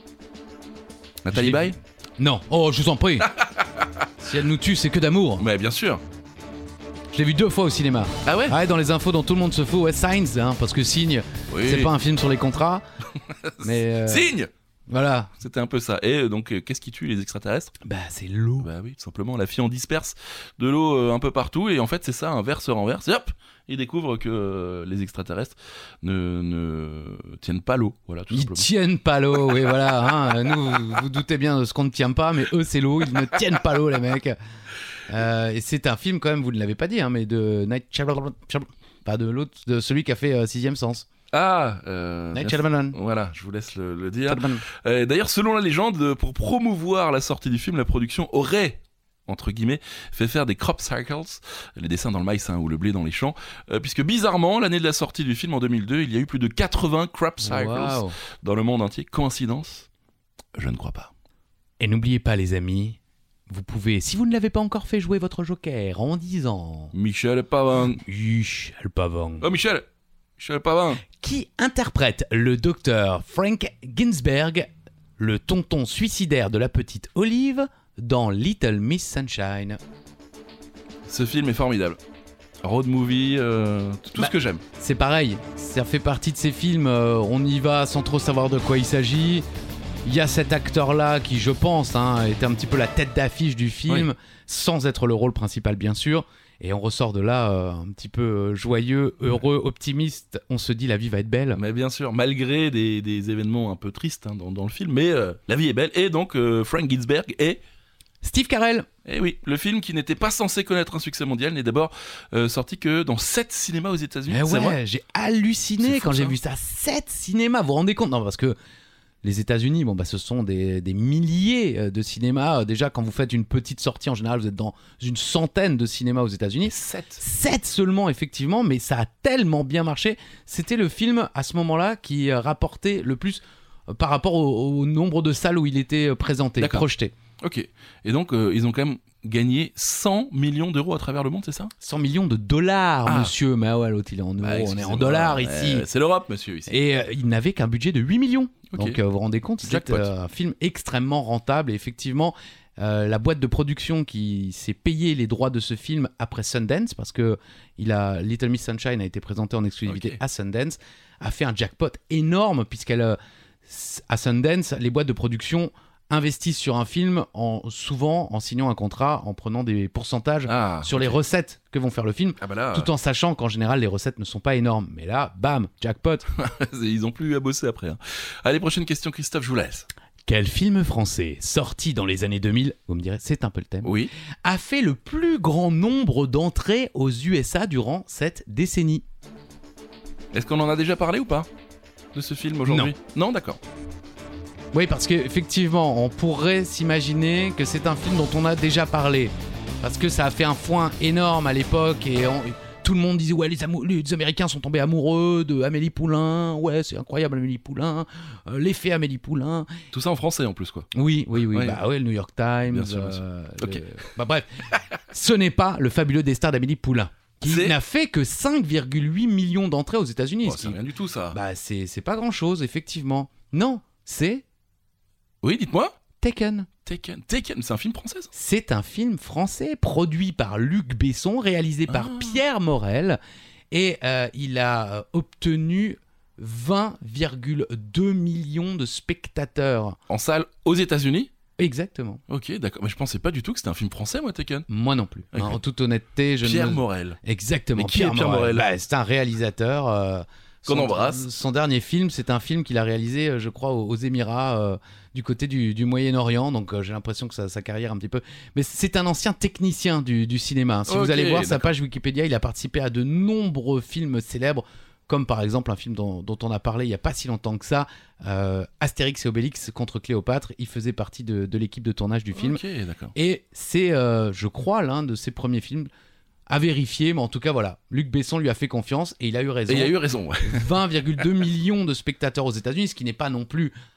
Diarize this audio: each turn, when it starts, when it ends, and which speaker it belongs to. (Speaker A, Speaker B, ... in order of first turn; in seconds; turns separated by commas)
Speaker A: 1.2-1.8, Speaker B: 1.3-3.3, Speaker A: 3.2-4.0, Speaker B: 4.2-5.4, Speaker A: 5.4-6.0, Speaker B: 7.1-12.8, Speaker A: 8.2-8.6, Speaker A: 11.5-11.9, Speaker A: 13.2-14.5, Speaker B: 13.6-14.3, Speaker B: 14.9-15.3, Speaker A: 15.4-17.7, Speaker B: 17.8-18.7, Speaker A: 18.6-28.7, Speaker B: 28.3-34.4, Speaker B: 35.1-41.1, Speaker A: 41.3-59.9, Speaker B: 42.3-43.0, Speaker B: 44.3-44.6, Speaker B: 57.4-58.1, Speaker A: 60.5-61.1, Speaker B: 61.8-63.0, Speaker B: 63.5-66.9, Speaker A: 66.9-68.0, Speaker B: 68.0-69.5, Speaker A: 69.4-69.8, Speaker A: 70.4-71.0, Speaker B: 71.0-79.8, Speaker A: 81.1-82.0, Speaker A: 82.6-84.6, Speaker B: 84.2-89.4, Speaker B: 90.0-101.6, Speaker A: 101.5-107.6, Speaker B: 108.2-108.9, Speaker A: 109.0-114.8, Speaker B: 114.3-118.5, Speaker A: 115.8-116.3, Speaker B: 119.2-137.1, Speaker A: 126.7-127.2, Speaker A: 136.6-136.8, Speaker A: 137.4-141.7, Speaker B: 141.8-145.8, Speaker A: 143.1-143.3, Speaker A: 144.4-146.7, Speaker B: 146.7-176.2, Speaker A: 148.7-149.0, Speaker A: 149.6-150.1, Speaker A: 159.9-160.2, Speaker A: 170.5-171.2, Speaker A: 172.4-172.9, Speaker A: 176.3-179.9, Speaker B: 180.2-189.0, Speaker A: 183.8-184.1, Speaker A: 190.3-191.5, Speaker A: 192.1-193.6, Speaker B: 192.7-192.9, Speaker B: 194.7-209.7, Speaker A: 209.9-211.8, Speaker B: 210.9-214.5, Speaker A: 212.7-213.8, Speaker B: 215.1-220.8, Speaker A: 217.4-217.8, Speaker A: 220.4-221.4, Speaker B: 221.3-224.4, Speaker A: 225.4-226.0, Speaker B: 226.2-226.7, Speaker A: 226.8-228.3, Speaker B: 228.3-233.2, Speaker A: 231.9-232.4, Speaker B: 233.7-240.0, Speaker A: 240.1-241.3, Speaker B: 241.6-242.2, Speaker A: 242.3-244.7, Speaker B: 244.7-272.6, Speaker A: 245.3-245.6, Speaker A: 246.4-247.2, Speaker A: 247.8-248.7, Speaker A: 250.7-251.2, Speaker A: 260.9-261.7, Speaker A: 272.3-273.1, Speaker B: 273.1-275.9, Speaker B: 276.5-283.7, Speaker A: 279.7-280.8